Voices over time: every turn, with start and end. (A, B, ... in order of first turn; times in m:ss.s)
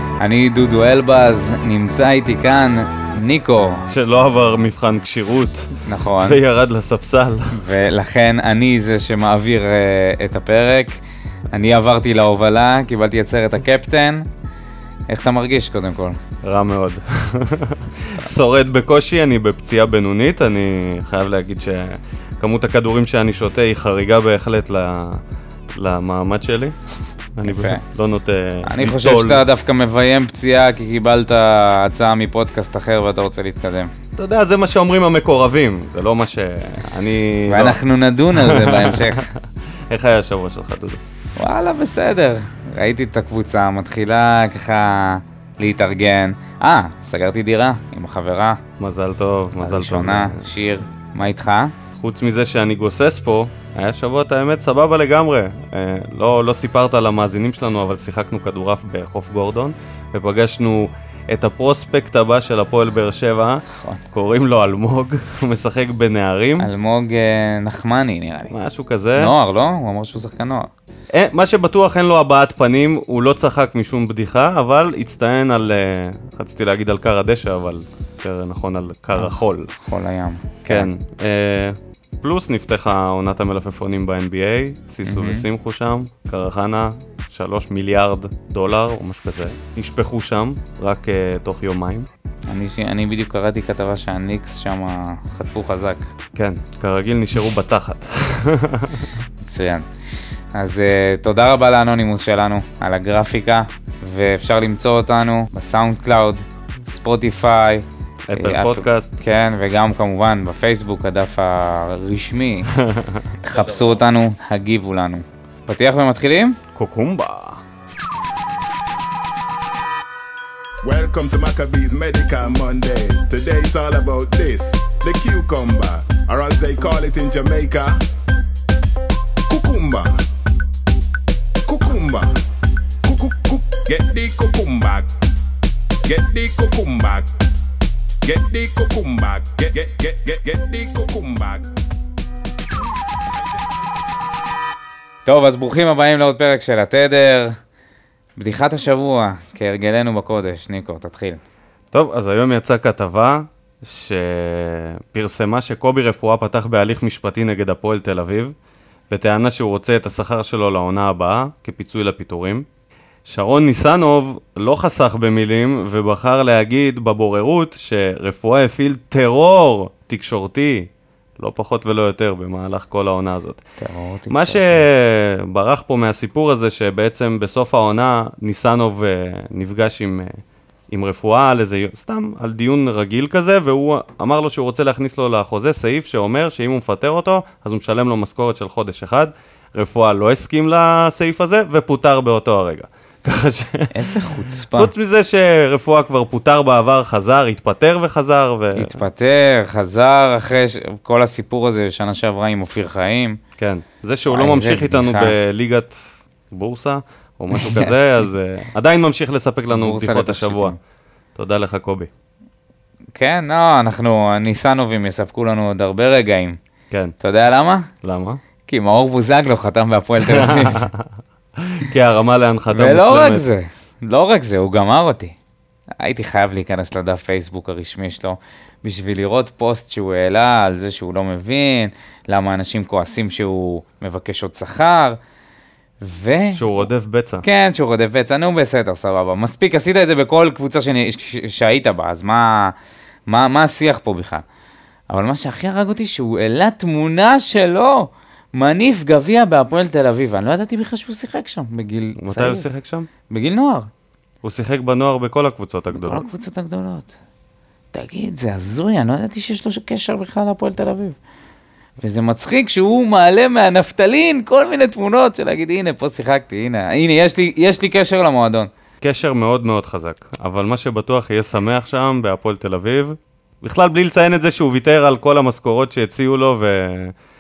0:00.2-0:03.9 A
0:03.9-0:07.6 B
0:05.9-0:06.4 A
0:07.5-0:10.9 A
0:11.5-0:14.2 A
0:15.1-0:16.2 A
0:16.4-0:25.2 B
0:25.8-0:26.8 B
0:27.4-0:29.5 B
0:27.4-0:27.8 A
0:28.6-0:33.9 A
0:34.2-0:37.8 B
0:37.5-0:39.3 A
0:38.3-0:41.0 B
0:41.4-0:48.6 A
0:48.8-0:50.5 B
0:49.6-0:51.8 A
0:52.0-1:06.7 B
1:03.7-1:04.0 A
1:06.6-1:08.6 A
1:08.5-1:09.3 B
1:09.2-1:10.7 A
1:11.1-1:19.7 B
1:19.2-1:20.9 A
1:20.7-1:32.1 B
1:25.0-1:25.5 A
1:32.5-1:36.1 A
1:36.4-1:39.1 B
1:39.4-1:39.9 A
1:40.5-1:47.8 A
1:48.3-1:49.2 B
1:48.4-1:52.8 A
1:52.8-1:53.2 B
1:53.4-1:56.6 A
1:56.8-1:57.6 B
2:00.8-2:08.0 C
2:09.5-2:10.2 C
2:11.7-2:12.4 C
2:13.0-2:15.1 C
2:16.0-2:17.3 C
2:18.2-2:21.7 C
2:25.2-2:27.5 A
2:28.4-2:31.4 A
2:31.9-2:38.6 B
2:39.1-2:42.7 B
2:43.3-2:53.6 B
2:53.8-2:54.8 A
2:54.3-3:00.4 B
3:00.9-3:19.0 B
3:13.9-3:14.9 A
3:18.7-3:23.4 A
3:23.6-3:30.8 B
3:24.3-3:25.4 A
3:27.5-3:27.9 A
3:29.7-3:30.8 A
3:31.4-3:32.1 B
3:33.2-3:36.6 A
3:37.2-3:37.9 A
3:38.0-3:38.4 B
3:38.7-3:40.9 A
3:40.3-3:43.5 B
3:42.7-3:45.4 A
3:46.0-3:55.2 A
3:56.0-3:56.9 A
3:56.5-3:57.4 B
3:57.4-4:02.7 A
4:03.3-4:04.4 A
4:05.1-4:12.7 A
4:12.2-4:13.1 B
4:13.3-4:13.9 A
4:14.4-4:16.3 B
4:15.9-4:17.1 A
4:17.9-4:21.2 A
4:22.0-4:28.7 A
4:29.0-4:37.1 B